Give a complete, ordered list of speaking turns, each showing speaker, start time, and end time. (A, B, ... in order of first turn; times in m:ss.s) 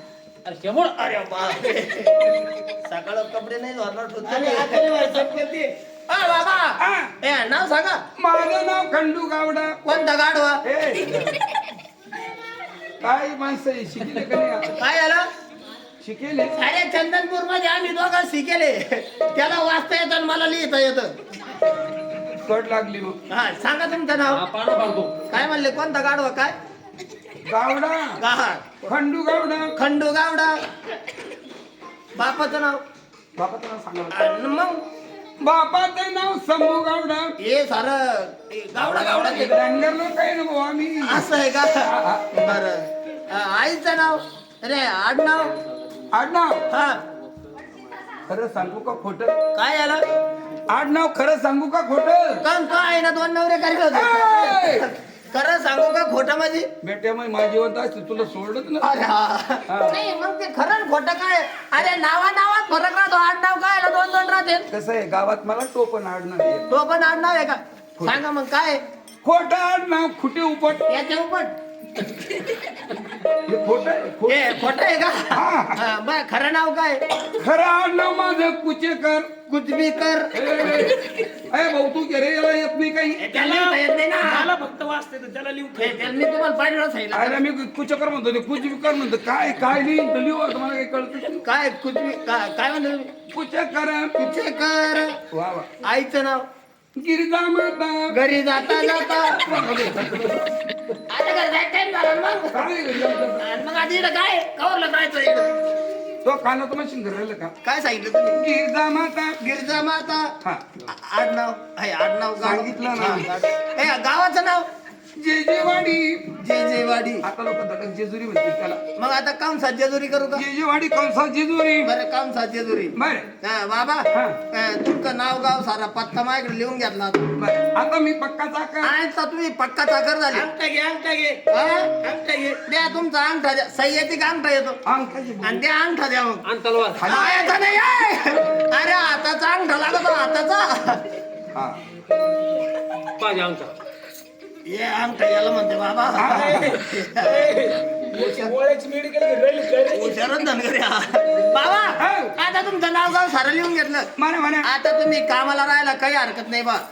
0:00.4-0:00.9 A
0:01.0-0:02.3 B
0:02.8-0:08.0 B
0:06.8-0:07.1 C
0:08.2-0:09.8 C
0:09.8-0:10.6 B
0:10.6-0:11.3 C
0:13.0-0:14.7 C
0:14.7-0:15.3 B
0:16.0-0:16.6 C
0:16.5-0:21.1 B
0:22.4-0:23.2 C
0:23.3-0:24.4 B
0:24.3-0:25.2 A
0:25.3-0:26.5 B
0:27.4-0:28.2 C
0:28.2-0:28.9 B
0:28.9-0:29.8 C
0:29.8-0:30.5 B
0:32.2-0:32.8 B
0:33.4-0:34.2 C
0:34.1-0:34.8 B
0:35.4-0:37.4 C
0:37.4-0:39.6 B
0:38.8-0:41.3 C
0:41.1-0:45.5 B
0:41.8-0:42.3 C
0:46.1-0:46.6 C
0:46.7-0:47.0 B
0:48.3-0:49.4 C
0:49.5-0:50.0 B
0:50.7-0:52.4 C
0:52.4-0:56.7 B
0:53.9-0:54.9 C
0:56.8-0:58.9 C
0:58.8-1:04.7 B
0:59.7-1:00.0 C
1:04.7-1:06.7 C
1:06.7-1:08.8 B
1:09.2-1:10.9 C
1:10.9-1:11.5 B
1:13.4-1:14.5 C
1:14.3-1:17.0 B
1:15.3-1:15.8 C
1:17.4-1:19.3 C
1:19.5-1:20.4 B
1:20.3-1:23.4 C
1:23.2-1:24.5 B
1:23.4-1:26.1 D
1:25.8-1:27.4 B
1:27.1-1:31.4 C
1:31.4-1:33.1 B
1:33.3-1:34.1 C
1:34.2-1:35.2 B
1:35.3-1:35.7 C
1:35.8-1:36.4 B
1:37.0-1:40.6 C
1:38.1-1:39.5 B
1:41.1-1:42.7 B
1:42.5-1:43.4 C
1:43.4-1:45.5 B
1:46.2-1:47.5 C
1:47.6-1:48.4 B
1:48.4-1:49.4 C
1:49.4-1:50.3 B
1:50.4-1:50.9 C
1:50.9-1:54.7 B
1:52.4-1:53.3 C
1:55.2-1:56.4 C
1:56.4-1:57.3 B
1:57.2-1:58.8 C
1:59.0-2:00.4 B
2:00.4-2:01.9 C
2:01.8-2:07.3 B
2:03.0-2:03.3 C
2:04.1-2:04.4 C
2:07.4-2:08.9 C
2:08.8-2:10.5 B
2:10.4-2:11.4 D
2:11.4-2:14.8 B
2:12.1-2:12.5 D
2:14.8-2:15.6 C
2:15.4-2:16.4 B
2:16.5-2:17.0 A
2:17.0-2:17.8 C
2:17.0-2:21.0 B
2:21.5-2:21.8 C
2:23.1-2:23.8 A
2:24.7-2:27.4 B
2:26.2-2:26.8 C
2:26.2-2:30.4 D
2:28.2-2:28.5 B
2:28.2-2:28.5 A
2:29.9-2:34.1 B
2:32.0-2:32.3 C
2:34.2-2:34.7 C
2:34.6-2:36.8 B